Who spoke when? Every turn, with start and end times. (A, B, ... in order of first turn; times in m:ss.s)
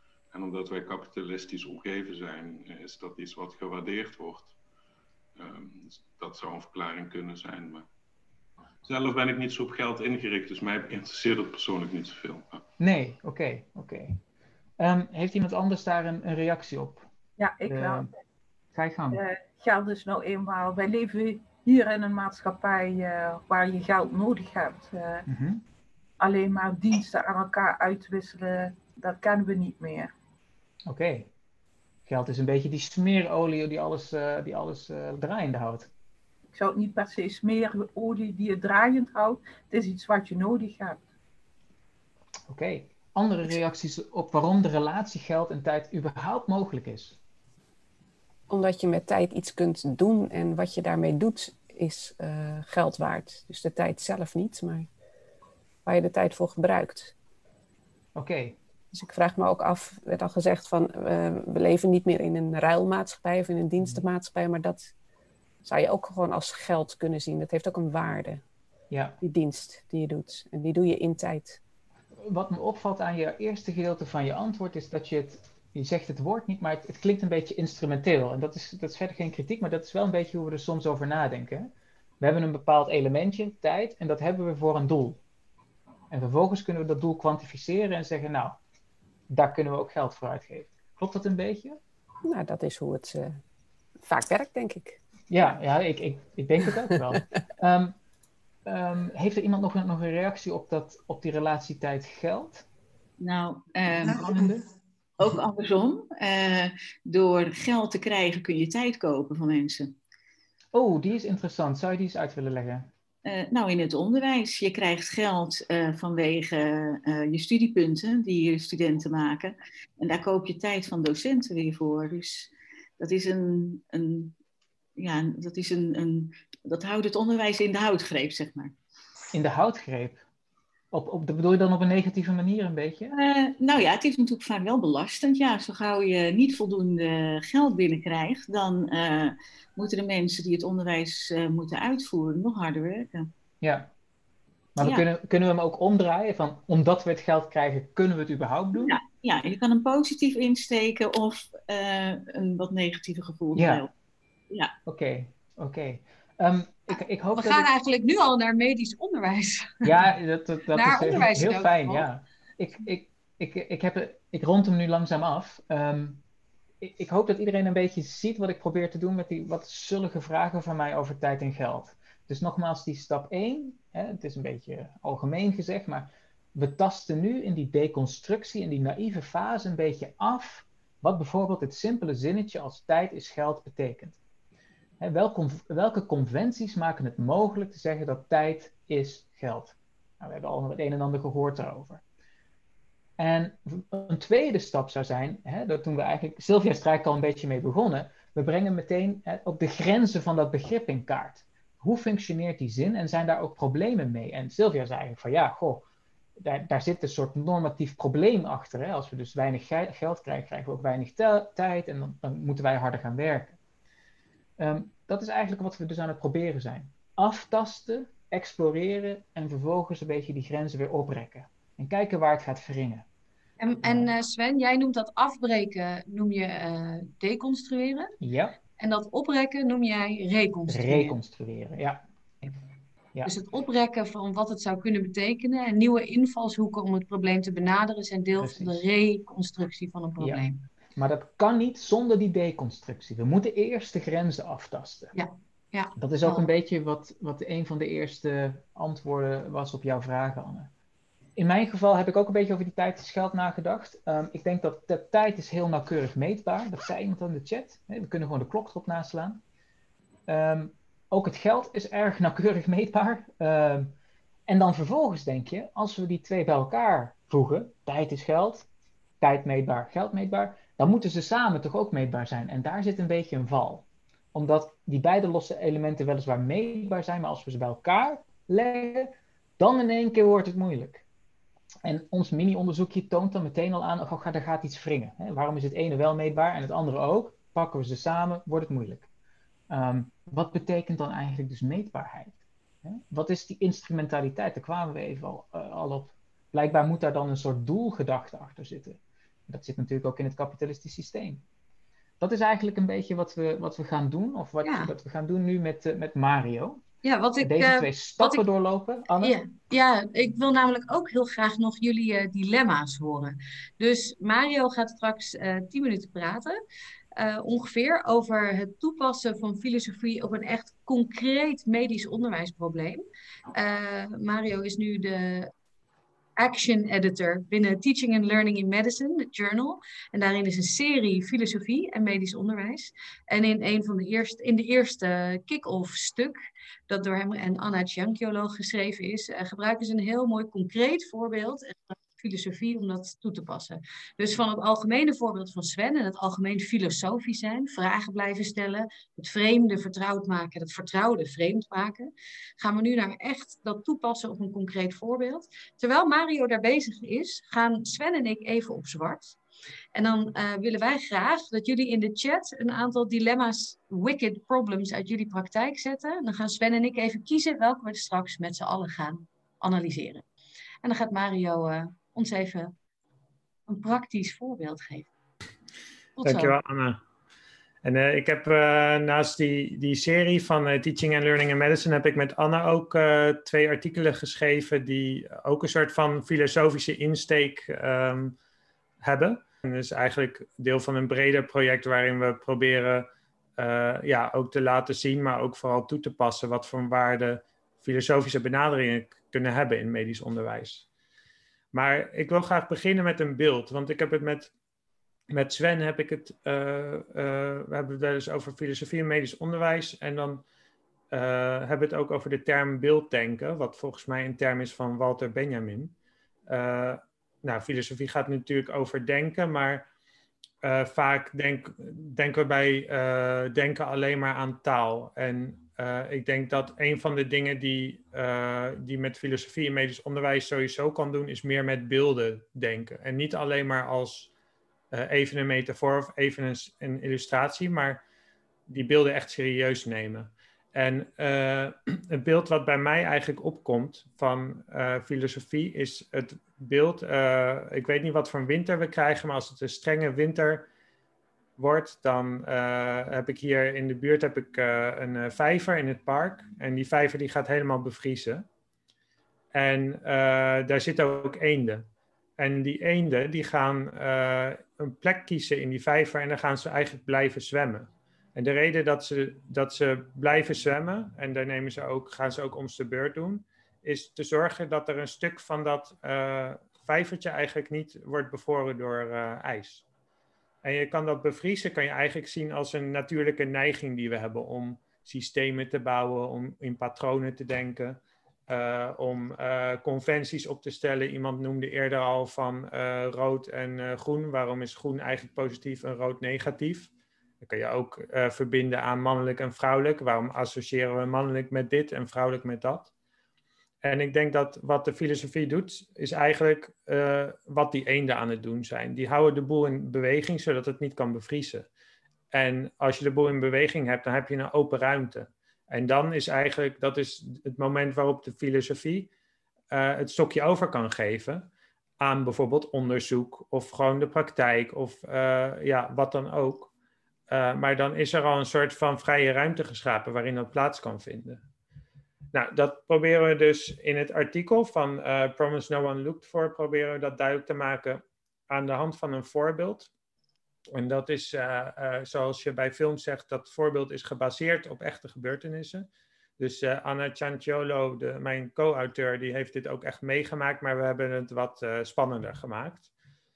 0:00.3-0:04.6 A
0:05.4-0:07.9 A
0:08.8-0:12.6 A
0:12.8-0:14.2 B
0:14.8-0:17.1 B
0:17.4-0:18.1 C
0:17.6-0:18.1 B
0:18.7-0:19.2 B
0:19.1-0:25.2 C
0:25.3-0:25.6 B
0:26.2-0:30.1 C
0:30.9-0:31.3 B
0:32.0-0:35.9 B
0:36.5-0:41.0 C
0:42.5-0:47.2 B
0:48.5-0:54.9 D
0:55.8-0:57.1 D
0:58.1-0:58.6 B
0:58.9-1:04.9 D
1:03.8-1:04.0 B
1:05.6-1:08.4 D
1:08.9-1:09.2 B
1:09.2-1:11.6 D
1:12.2-1:25.2 B
1:26.1-1:28.6 B
1:29.3-1:31.8 B
1:32.2-1:33.4 D
1:34.0-1:35.0 D
1:35.3-1:37.9 B
1:38.6-1:42.7 B
1:43.2-1:44.6 E
1:44.0-1:44.6 B
1:45.2-1:49.9 E
1:50.7-1:52.9 B
1:53.2-2:04.3 E
2:05.0-2:08.7 E
2:09.3-2:10.2 B
2:10.9-2:13.1 B
2:13.1-2:23.3 E
2:23.6-2:23.9 B
2:24.8-2:29.0 B
2:24.8-2:25.0 E
2:28.8-2:33.9 E
2:33.6-2:33.8 B
2:34.8-2:37.7 B
2:37.3-2:39.9 F
2:39.8-2:46.2 B
2:40.7-2:42.0 F
2:46.8-3:04.2 B
3:05.0-3:12.0 B
3:13.2-3:25.8 B
3:26.4-3:33.6 B
3:34.6-3:43.0 B
3:43.6-3:48.1 F
3:43.8-3:44.1 B
3:48.2-3:48.6 B
3:48.8-3:51.1 F
3:50.7-3:52.5 B
3:53.2-4:00.6 F
3:58.4-3:58.8 B
4:01.0-4:05.1 B
4:05.1-4:06.4 F
4:06.0-4:10.7 B
4:11.4-4:19.4 B
4:20.3-4:23.9 B
4:24.5-4:28.7 B
4:29.2-4:41.0 B
4:41.8-4:49.1 B
4:49.7-5:01.4 B
5:02.2-5:06.8 B
5:04.6-5:04.9 F
5:07.0-5:08.4 F
5:07.4-5:09.4 B
5:09.2-5:16.6 F
5:17.2-5:23.0 F
5:23.5-5:25.5 F
5:26.4-5:59.4 F
5:59.9-6:10.2 F
6:10.8-6:12.7 F
6:13.7-6:15.1 F
6:16.2-6:16.5 F
6:16.2-6:17.0 G
6:17.8-6:28.4 G
6:29.0-6:33.1 G
6:33.6-6:40.8 G
6:41.7-6:44.5 G
6:45.3-6:50.4 G
6:51.1-6:55.9 G
6:56.5-6:59.8 G
7:00.6-7:14.3 G
7:14.9-7:18.0 G
7:18.7-7:30.7 G
7:31.6-7:38.4 G
7:39.5-7:41.8 G
7:42.4-7:59.8 G
8:00.6-8:16.9 G
8:17.4-8:22.9 G
8:23.8-8:31.7 G
8:32.3-8:39.1 G
8:39.7-8:41.5 G
8:42.0-8:46.7 G
8:47.3-8:51.4 G
8:52.3-8:59.9 G
9:00.7-9:05.8 G
9:06.4-9:12.9 G